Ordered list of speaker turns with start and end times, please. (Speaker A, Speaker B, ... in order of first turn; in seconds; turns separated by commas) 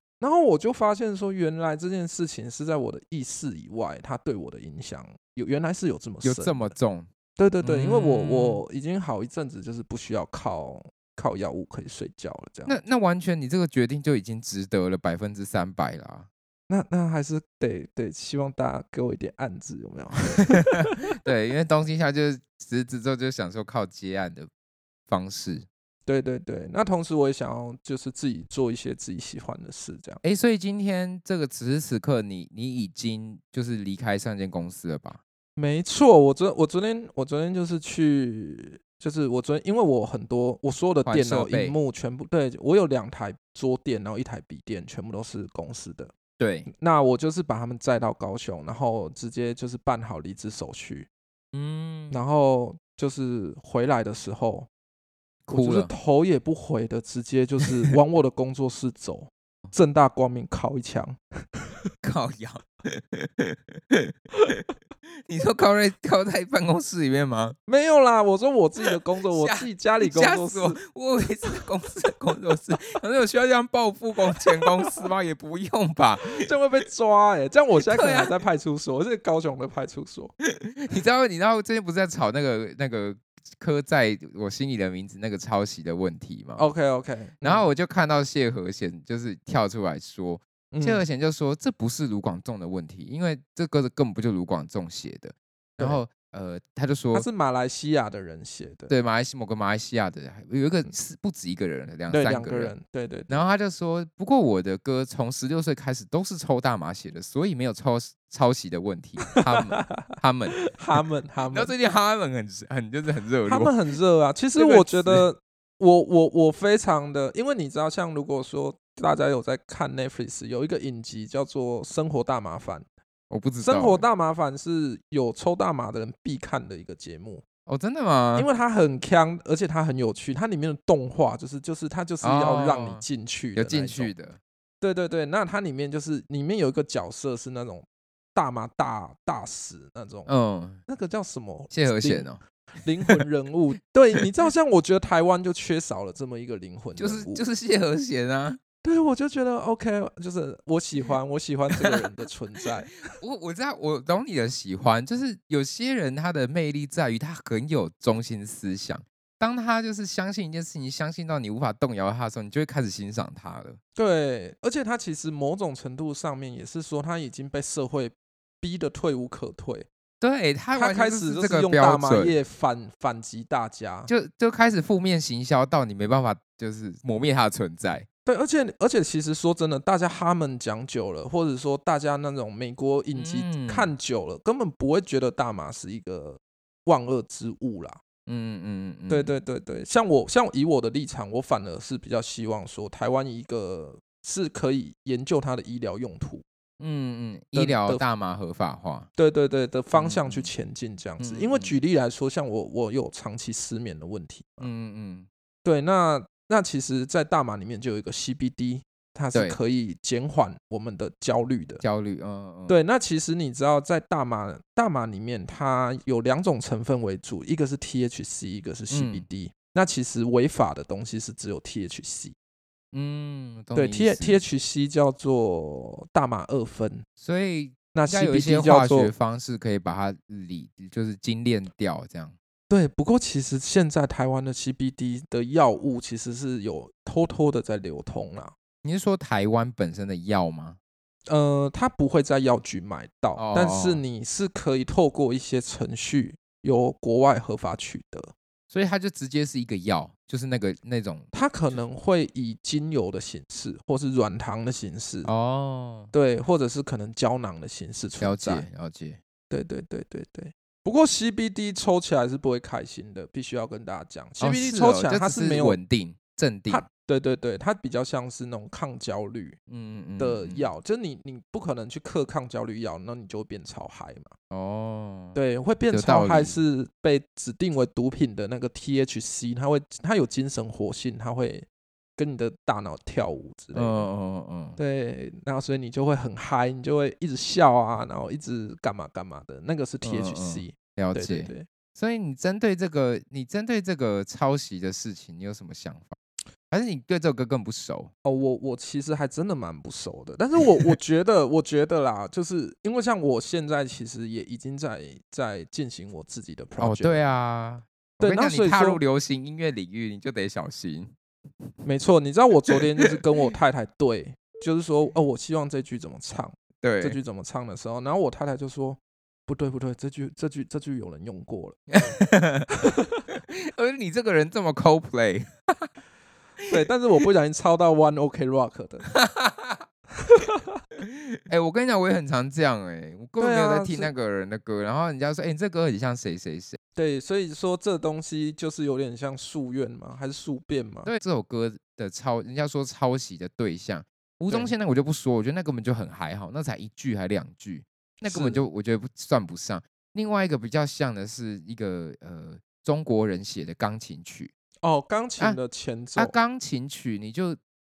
Speaker A: 0.2-6.7, Speaker B: 6.2-7.1, Speaker A: 7.4-12.8, Speaker B: 7.6-8.6, Speaker B: 12.7-16.3, Speaker A: 16.7-21.0, Speaker B: 20.7-24.5, Speaker B: 25.1-25.7, Speaker A: 26.1-30.2, Speaker B: 30.2-35.2, Speaker A: 35.6-46.1, Speaker B: 41.0-41.8, Speaker B: 46.4-46.7, Speaker A: 46.7-51.1, Speaker B: 51.5-52.2, Speaker A: 52.1-54.7, Speaker B: 55.5-55.9, Speaker A: 55.5-61.2, Speaker B: 62.0-64.6, Speaker B: 65.3-67.6, Speaker A: 67.7-70.8, Speaker B: 69.3-76.5, Speaker A: 76.4-80.3, Speaker B: 77.8-78.3, Speaker B: 80.4-86.6, Speaker A: 86.6-87.7, Speaker B: 87.4-97.3, Speaker A: 90.7-91.0, Speaker A: 97.1-98.9, Speaker B: 98.9-102.7, Speaker A: 102.1-103.4, Speaker B: 103.3-110.6, Speaker A: 109.3-111.7, Speaker B: 111.5-113.7, Speaker A: 113.5-122.9, Speaker B: 114.6-115.3, Speaker B: 123.3-124.1, Speaker A: 123.6-127.4, Speaker B: 127.7-128.5, Speaker A: 128.4-134.1, Speaker B: 132.2-134.4, Speaker A: 134.8-140.3, Speaker B: 140.3-140.8, Speaker A: 140.9-142.3, Speaker B: 141.7-142.4, Speaker A: 142.8-147.4, Speaker B: 147.0-148.6, Speaker A: 148.8-153.0, Speaker B: 153.1-163.8, Speaker A: 164.0-169.9, Speaker B: 170.2-172.4, Speaker A: 170.8-174.1, Speaker B: 174.1-178.1, Speaker A: 178.3-188.0, Speaker B: 183.2-183.9, Speaker B: 188.3-189.3, Speaker A: 189.1-196.4, Speaker B: 196.8-199.1, Speaker A: 197.5-198.0, Speaker A: 199.2-204.7, Speaker B: 199.9-200.5, Speaker B: 201.2-201.8, Speaker B: 204.6-205.3, Speaker A: 205.6-211.8, Speaker B: 211.8-212.8, Speaker A: 212.7-222.4, Speaker B: 218.9-219.3, Speaker B: 222.9-224.4, Speaker A: 223.8-227.1, Speaker B: 227.2-232.3, Speaker A: 227.9-229.1, Speaker A: 232.7-238.6, Speaker B: 238.8-240.8, Speaker A: 241.3-248.3, Speaker B: 243.4-244.0, Speaker B: 248.7-251.8, Speaker A: 251.3-255.3, Speaker B: 255.2-256.1, Speaker A: 256.1-258.7, Speaker B: 258.2-259.2, Speaker A: 259.5-265.8, Speaker B: 264.4-266.9, Speaker A: 266.7-269.6, Speaker B: 269.7-270.7, Speaker A: 270.2-274.3, Speaker B: 274.5-275.4, Speaker A: 275.4-284.1, Speaker B: 275.9-276.6, Speaker B: 283.7-284.8, Speaker A: 284.8-291.7, Speaker B: 290.0-296.2, Speaker B: 296.7-298.1, Speaker A: 298.2-307.2, Speaker B: 306.8-311.1, Speaker A: 308.2-309.0, Speaker A: 311.8-321.8, Speaker B: 316.8-317.2, Speaker B: 321.9-322.7, Speaker B: 323.3-325.9, Speaker A: 326.7-329.1, Speaker B: 329.1-329.9, Speaker A: 330.2-330.6, Speaker B: 331.0-336.8, Speaker A: 333.4-334.1, Speaker A: 336.9-341.1, Speaker B: 341.1-354.5, Speaker A: 348.2-348.6, Speaker A: 354.8-356.4, Speaker B: 356.2-357.6